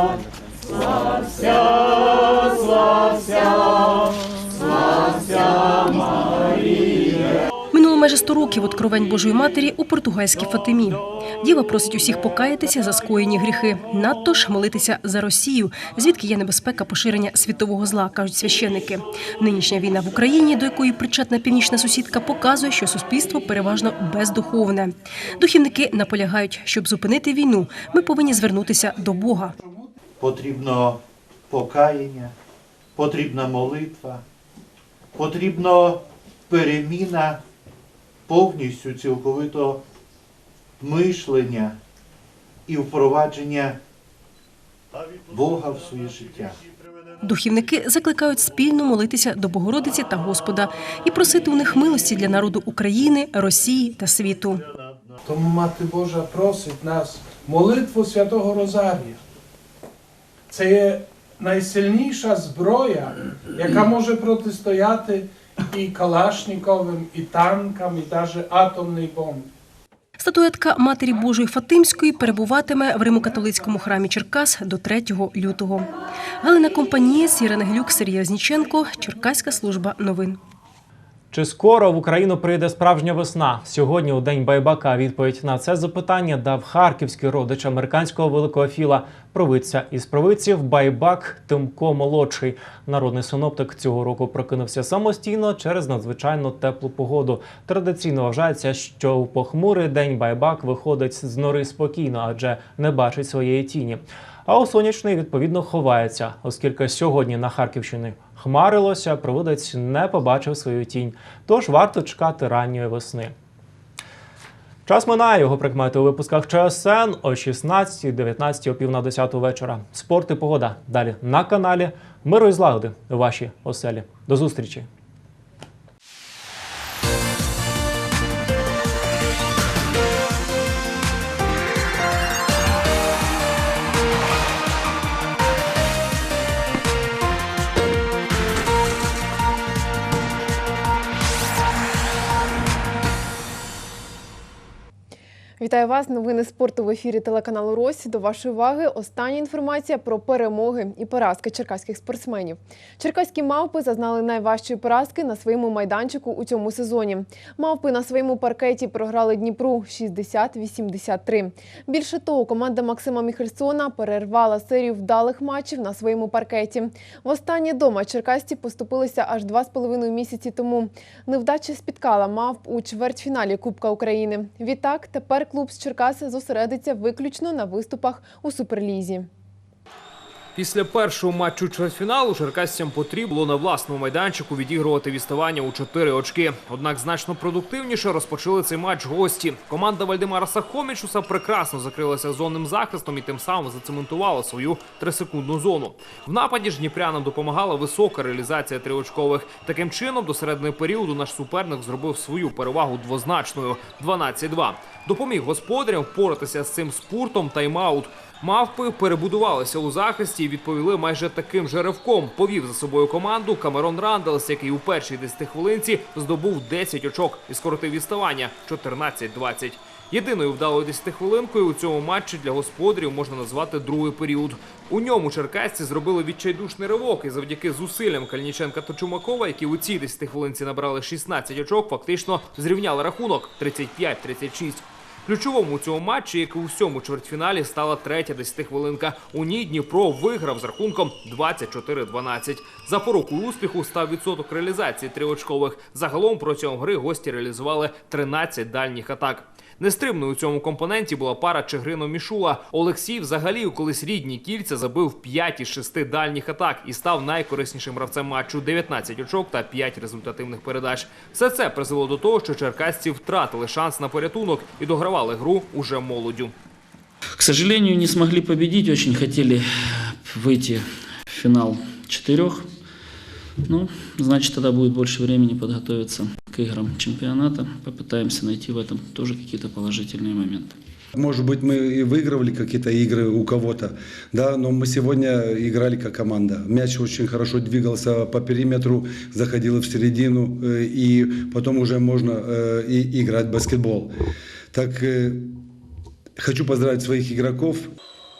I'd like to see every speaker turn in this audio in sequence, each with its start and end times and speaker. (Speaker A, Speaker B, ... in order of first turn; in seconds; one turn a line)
Speaker A: 7.7-29.6
Speaker B: 29.6-29.9
Speaker C: 30.2-32.3
Speaker C: 33.0-34.2
Speaker C: 35.1-37.4
Speaker C: 38.3-39.8
Speaker C: 40.8-41.8
Speaker C: 42.7-43.8
Speaker C: 45.3-46.6
Speaker A: 47.2-54.6
Speaker B: 55.2-59.2
Speaker B: 60.5-69.5
Speaker A: 70.2-75.9
Speaker A: 76.4-80.4
Speaker D: 81.3-113.3
Speaker D: 114.9-124.9
Speaker E: 145.6-179.3
Speaker F: 180.6-266.5
Speaker G: 267.4-269.6
Speaker G: 270.3-272.6
Speaker G: 273.7-280.8
Speaker H: 281.1-295.7
Speaker H: 296.4-297.9